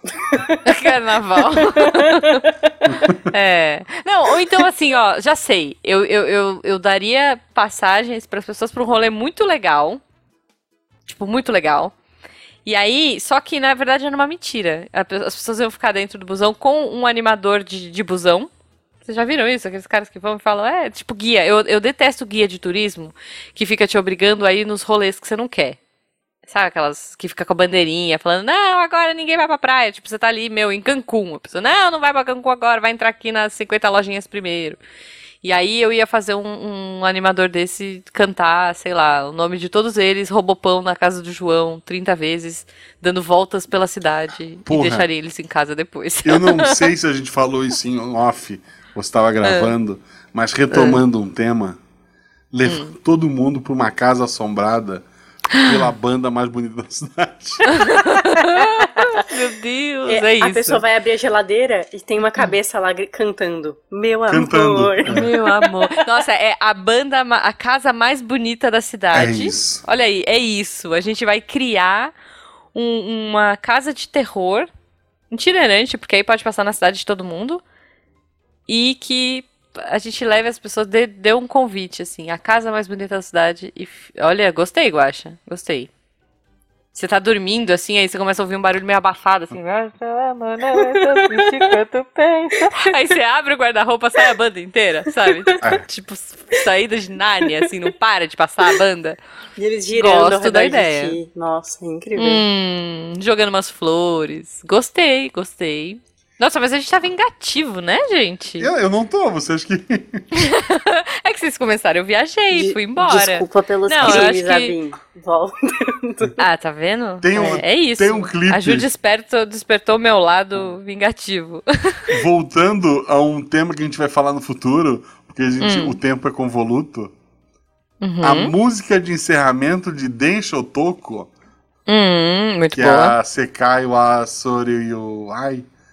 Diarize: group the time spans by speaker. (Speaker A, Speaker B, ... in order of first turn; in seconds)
Speaker A: 0.2-0.6, 1.8-2.7, 58.6-59.1, 60.1-65.5, 90.7-91.7, 99.6-102.4, 112.5-116.4
Speaker B: 0.6-2.5, 3.3-10.0, 11.1-11.9, 12.6-18.5, 19.0-25.8, 26.5-34.8, 35.4-46.8, 49.4-49.7, 50.7-51.0, 52.6-53.0, 57.7-60.8, 65.0-72.1, 72.7-74.7, 75.3-77.6, 78.7-85.9, 86.9-99.2, 99.9-101.2, 102.2-108.7, 110.3-114.7, 116.4-122.1, 125.6-126.0, 128.0-128.5, 131.9-133.2
Speaker C: 2.9-3.2, 44.6-45.0, 46.2-51.8, 52.5-55.0, 55.6-57.7, 64.3-65.3, 69.1-69.8, 108.6-110.5, 117.2-118.9, 122.1-127.1, 128.2-131.3, 132.7-135.7